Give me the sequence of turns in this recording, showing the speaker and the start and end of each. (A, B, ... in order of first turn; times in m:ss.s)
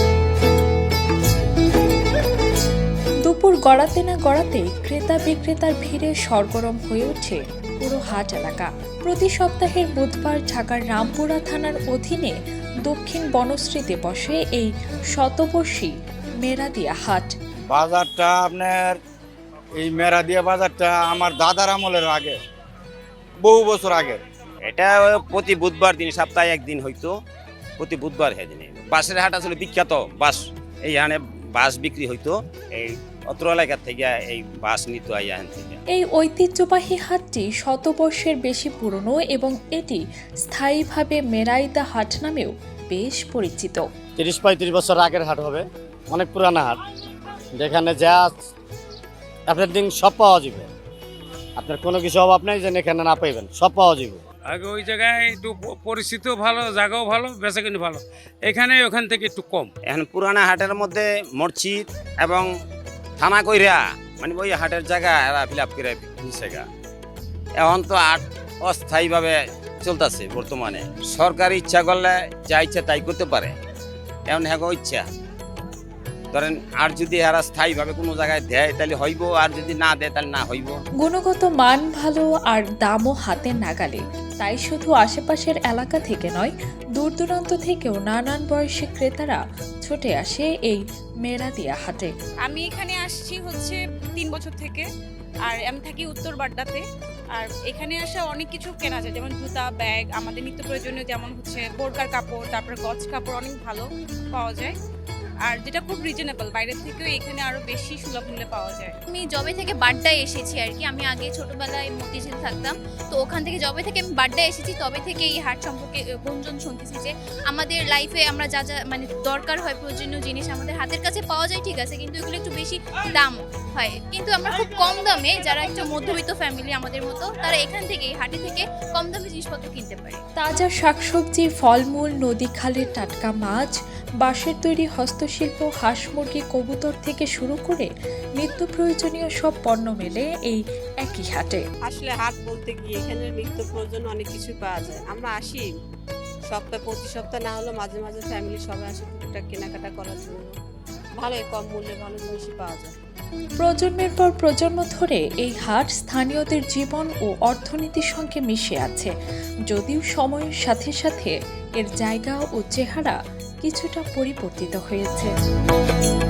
0:03.2-0:12.3 A
0:12.8-0:17.3 A
0:17.7-0:19.0 B
0:19.8-0:22.4 B
0:23.4-0:24.2 B
0:24.6-0:27.1 C
0:27.8-0:35.8 C
0:35.9-0:43.8 A
0:44.2-0:46.8 D
0:47.5-0:48.4 D
0:49.5-0:50.7 D
0:51.6-0:54.2 D
0:54.4-0:59.7 E
0:59.8-1:02.5 C
1:03.2-1:06.6 C
1:07.6-1:13.5 C
1:14.3-1:15.0 C
1:16.3-1:20.8 C
1:21.0-1:32.1 A
1:32.4-1:34.9 F
1:35.5-1:36.8 F
1:37.3-1:44.7 F
1:45.5-1:48.9 F
1:49.1-2:10.2 G
2:10.4-2:21.6 A
2:21.8-2:25.7 H
2:26.5-2:30.5 H
2:31.2-2:32.9 H
2:33.6-2:39.1 A
2:39.7-2:45.3 A